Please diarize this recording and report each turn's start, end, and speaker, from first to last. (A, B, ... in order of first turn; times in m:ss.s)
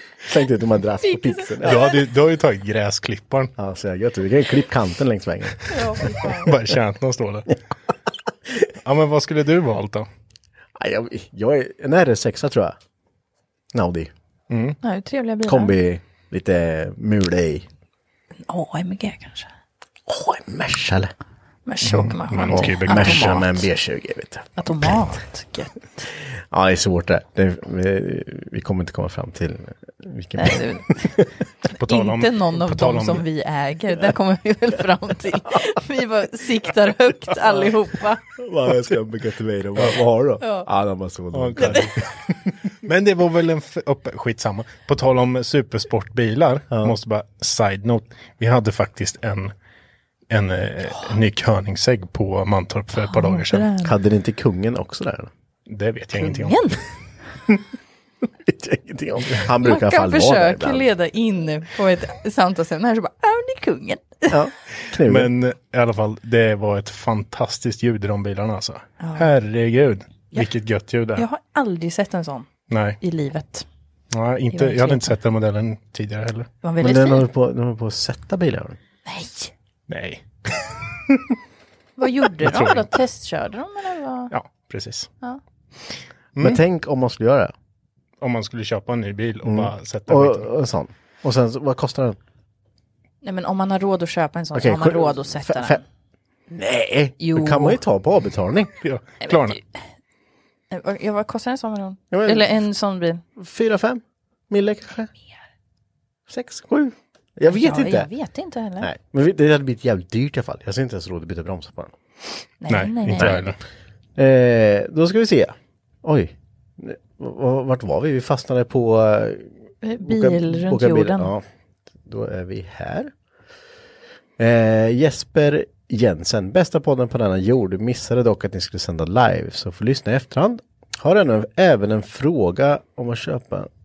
0:00.2-0:01.8 A
0:01.0-0:01.9 B
0:01.6-0:03.5 C
0:03.6-0:05.7 A
0:05.7-0:06.5 B
0:06.3-0:07.5 C
0:08.8-0:10.1 C
0:10.8-0:12.8 A
0:13.7-0:14.1 A
0:14.5-0:14.8 C
0:14.8-0:15.7 B
0:15.5-0:17.7 A
0:18.5-0:19.5 B
0:20.1-0:21.1 A
0:21.7-0:23.4 B
0:21.8-0:23.6 C
0:22.5-0:24.9 A
0:24.6-0:26.1 B
0:26.5-0:31.3 A
0:30.4-0:31.1 B
0:31.7-0:38.2 B
0:31.7-0:33.2 C
0:38.4-0:42.0 A
0:40.4-0:40.7 B
0:41.3-0:42.0 C
0:41.6-0:41.8 B
0:42.8-0:49.5 C
0:50.3-0:53.7 C
0:53.0-0:53.9 B
0:53.8-0:55.3 A
0:55.7-0:56.6 C
0:56.2-0:56.8 B
0:58.4-1:00.9 A
0:59.6-1:04.4 B
1:04.3-1:05.3 A
1:05.0-1:11.2 C
1:09.0-1:09.3 B
1:11.2-1:12.5 B
1:12.7-1:13.0 C
1:13.0-1:13.7 B
1:14.1-1:16.5 C
1:14.5-1:15.1 B
1:16.6-1:17.3 B
1:16.8-1:18.8 A
1:19.1-1:19.5 B
1:19.9-1:21.1 C
1:22.0-1:24.3 B
1:22.4-1:23.0 C
1:24.3-1:25.1 C
1:26.4-1:27.5 A
1:28.2-1:30.5 C
1:29.4-1:32.2 A
1:33.2-1:35.8 B
1:34.5-1:35.8 A
1:36.5-1:38.7 A
1:37.2-1:37.8 B
1:38.8-1:39.6 C
1:39.2-1:39.6 B
1:40.7-1:43.2 B
1:42.1-1:42.6 A
1:43.4-1:45.1 A
1:46.3-1:48.1 A
1:47.5-1:48.9 B
1:48.8-1:52.0 A
1:52.6-1:53.5 B
1:52.7-1:53.6 C
1:53.2-1:53.4 A
1:54.2-2:01.4 A
1:59.8-2:01.3 B
2:02.0-2:03.1 A
2:04.4-2:13.7 A